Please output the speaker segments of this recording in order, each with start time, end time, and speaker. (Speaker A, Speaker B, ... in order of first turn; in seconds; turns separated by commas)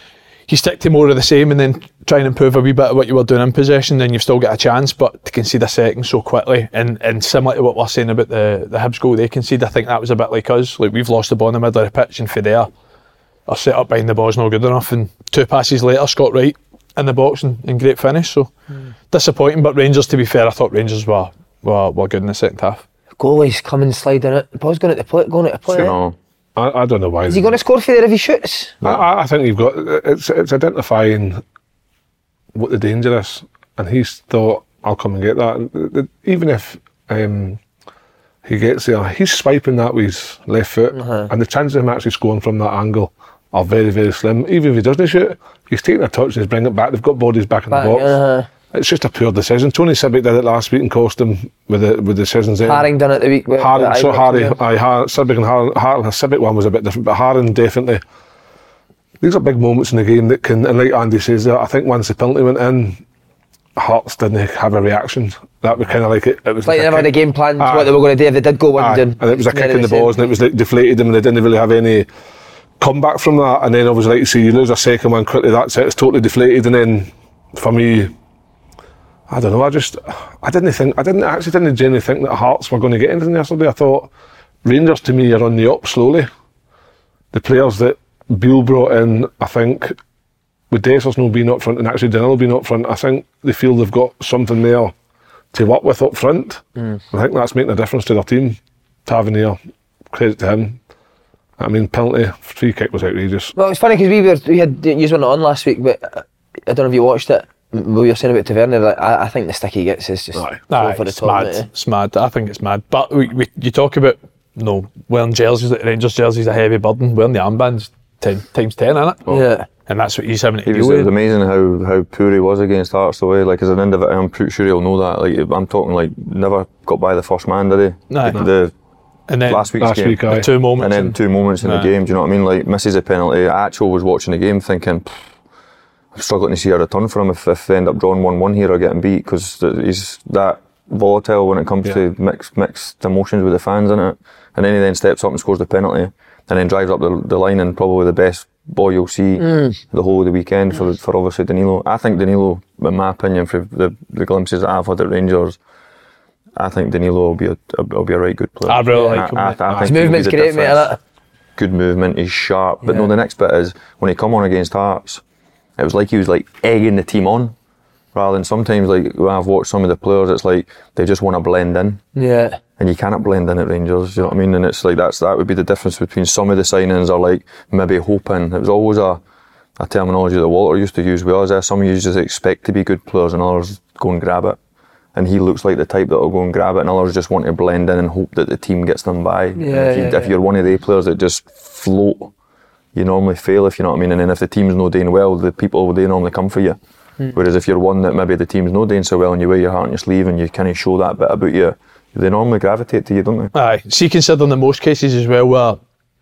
Speaker A: 0.5-12.7, Speaker A: 13.5-18.5, Speaker A: 19.1-22.8, Speaker B: 23.2-26.0, Speaker C: 25.7-26.2, Speaker D: 26.6-27.6, Speaker B: 27.3-28.8, Speaker D: 28.8-31.4, Speaker D: 32.5-37.6, Speaker D: 38.5-48.2, Speaker B: 40.9-41.3, Speaker B: 47.7-48.5, Speaker D: 48.7-52.9, Speaker B: 52.6-54.6, Speaker D: 53.6-58.0, Speaker D: 59.2-63.0, Speaker D: 63.8-68.0, Speaker B: 66.7-70.1, Speaker D: 68.8-72.1, Speaker D: 72.8-78.1, Speaker D: 79.3-84.1, Speaker D: 84.6-86.3, Speaker D: 87.3-90.0, Speaker D: 90.7-94.9, Speaker D: 95.5-99.6, Speaker D: 100.1-100.8, Speaker D: 101.6-103.5, Speaker B: 103.6-111.7, Speaker D: 110.4-110.6, Speaker A: 110.7-119.3, Speaker B: 119.3-119.7, Speaker A: 119.9-121.1, Speaker C: 120.7-128.7, Speaker A: 128.1-128.4, Speaker A: 129.3-129.7, Speaker C: 129.4-135.1, Speaker D: 129.8-130.5, Speaker A: 130.3-131.9, Speaker C: 136.1-155.6, Speaker B: 149.4-149.8, Speaker C: 156.6-161.0, Speaker A: 158.7-159.6, Speaker B: 158.9-159.2, Speaker B: 159.8-161.0, Speaker C: 161.6-165.2, Speaker C: 165.8-167.6, Speaker C: 168.1-172.0, Speaker B: 172.2-172.6, Speaker C: 172.8-179.2, Speaker C: 179.8-184.6, Speaker C: 185.2-192.3, Speaker B: 189.6-190.3, Speaker C: 192.9-196.8, Speaker C: 197.3-203.5, Speaker A: 203.5-205.8